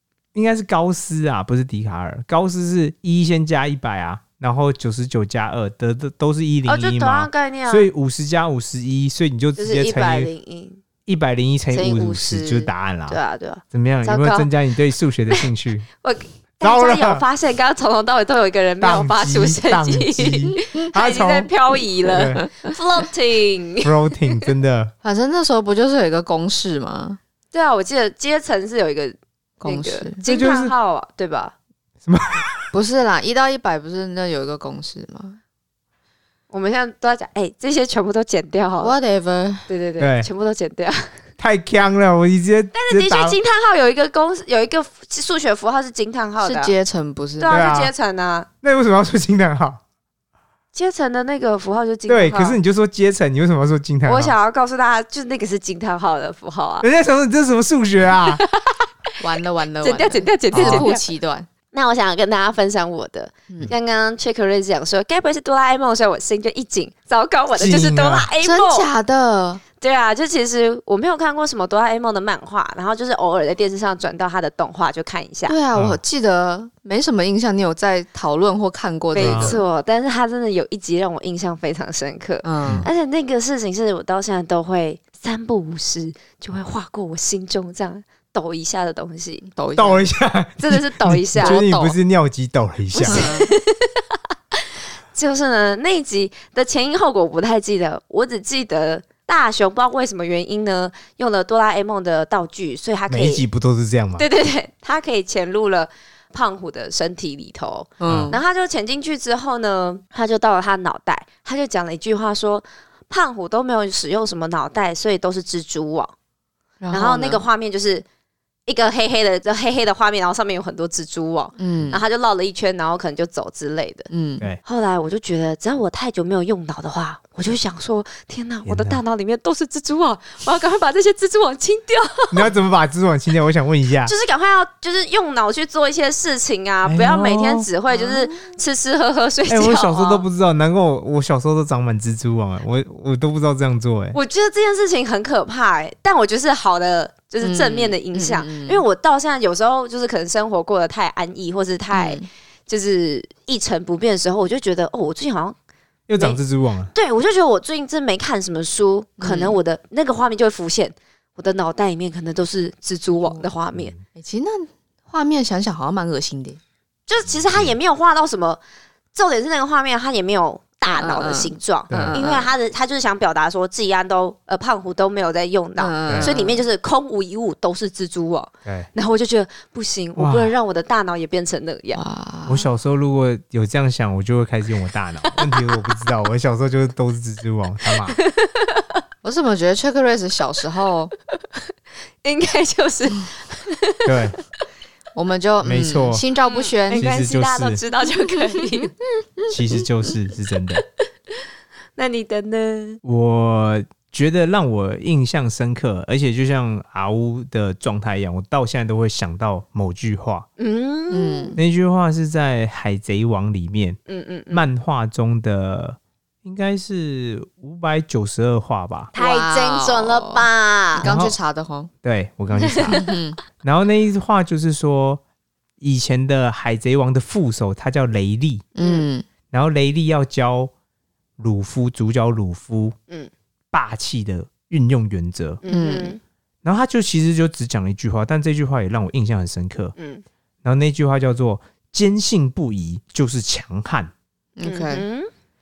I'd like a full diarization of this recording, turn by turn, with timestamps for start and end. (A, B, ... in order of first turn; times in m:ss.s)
0:00.3-0:10.3 A
0:06.7-0:07.9 B
0:09.6-0:10.8 B
0:11.1-0:13.2 A
0:11.7-0:14.5 B
0:13.7-0:15.9 A
0:16.0-0:23.9 B
0:16.6-0:17.2 A
0:18.8-0:21.5 A
0:22.0-0:22.6 A
0:23.8-0:24.9 A
0:25.0-0:27.2 C
0:27.5-0:31.5 B
0:29.6-0:30.2 C
0:30.2-0:30.7 A
0:32.1-0:32.7 A
0:32.7-0:35.4 C
0:36.5-0:39.0 B
0:38.8-0:39.7 C
0:39.7-0:41.0 B
0:40.0-0:40.3 A
0:41.4-0:43.4 A
0:42.7-0:46.7 B
0:46.4-0:47.7 C
0:47.4-0:48.5 B
0:47.5-0:47.9 A
0:48.6-0:49.8 A
0:50.7-0:52.6 B
0:52.1-0:54.4 A
0:54.1-0:56.9 B
0:56.8-0:58.4 A
0:58.3-0:58.8 B
0:59.2-1:01.5 C
0:59.8-1:01.0 B
1:00.5-1:00.9 A
1:01.7-1:08.9 B
1:07.6-1:08.3 A
1:08.4-1:09.6 C
1:09.8-1:15.6 B
1:15.5-1:19.6 C
1:15.8-1:16.0 A
1:19.1-1:29.5 B
1:19.2-1:19.6 A
1:22.4-1:22.9 C
1:29.5-1:30.1 C
1:29.8-1:33.3 A
1:30.6-1:31.6 B
1:31.4-1:32.0 C
1:32.9-1:34.0 B
1:33.1-1:33.5 C
1:35.1-1:43.4 B
1:43.1-1:44.2 A
1:44.2-1:56.1 B
1:48.0-1:48.4 C
1:48.1-1:48.4 A
1:56.8-1:57.4 C
1:56.9-1:58.0 B
1:58.7-2:04.1 B
2:01.6-2:02.0 C
2:04.1-2:04.5 C
2:04.6-2:12.5 B
2:08.7-2:09.0 A
2:12.3-2:14.1 A
2:14.0-2:20.2 B
2:16.8-2:17.7 A
2:17.9-2:18.2 C
2:19.5-2:24.2 A
2:24.1-2:35.6 B
2:27.4-2:28.8 C
2:31.9-2:32.2 C
2:36.1-2:36.9 A
2:36.9-2:43.9 B
2:39.2-2:39.6 C
2:43.1-2:43.5 C
2:43.7-2:44.0 A
2:44.1-2:46.6 C
2:47.1-2:48.6 B
2:47.3-2:47.8 A
2:49.1-3:02.0 B
2:50.9-2:52.5 C
2:51.9-2:52.2 A
2:55.8-2:56.6 C
3:00.2-3:00.5 A
3:01.9-3:02.7 C
3:02.5-3:08.2 A
3:05.2-3:05.8 B
3:08.1-3:08.8 B
3:09.2-3:11.1 C
3:12.2-3:14.4 B
3:14.1-3:14.4 A
3:15.1-3:17.1 C
3:15.6-3:16.2 A
3:16.4-3:19.0 B
3:17.0-3:17.8 A
3:19.5-3:20.8 A
3:22.0-3:23.0 B
3:23.0-3:30.5 A
3:30.6-3:31.6 B
3:31.1-3:31.6 C
3:31.6-3:34.0 A
3:34.1-3:34.7 B
3:34.5-3:39.1 A
3:39.1-3:41.1 B
3:39.2-3:41.9 C
3:41.0-3:41.4 A
3:42.0-3:43.0 A
3:42.7-3:43.0 B
3:42.8-3:43.4 C
3:43.6-3:45.2 A
3:45.8-3:48.6 A
3:48.8-3:49.2 C
3:48.8-3:49.0 B
3:49.5-3:50.7 A
3:51.4-3:53.0 A
3:53.7-3:55.6 A
3:55.6-3:56.2 B
3:55.7-3:56.2 C
3:56.6-3:59.9 A
4:00.0-4:00.2 B
4:00.6-4:04.1 A
4:04.6-4:05.0 C
4:04.6-4:05.3 B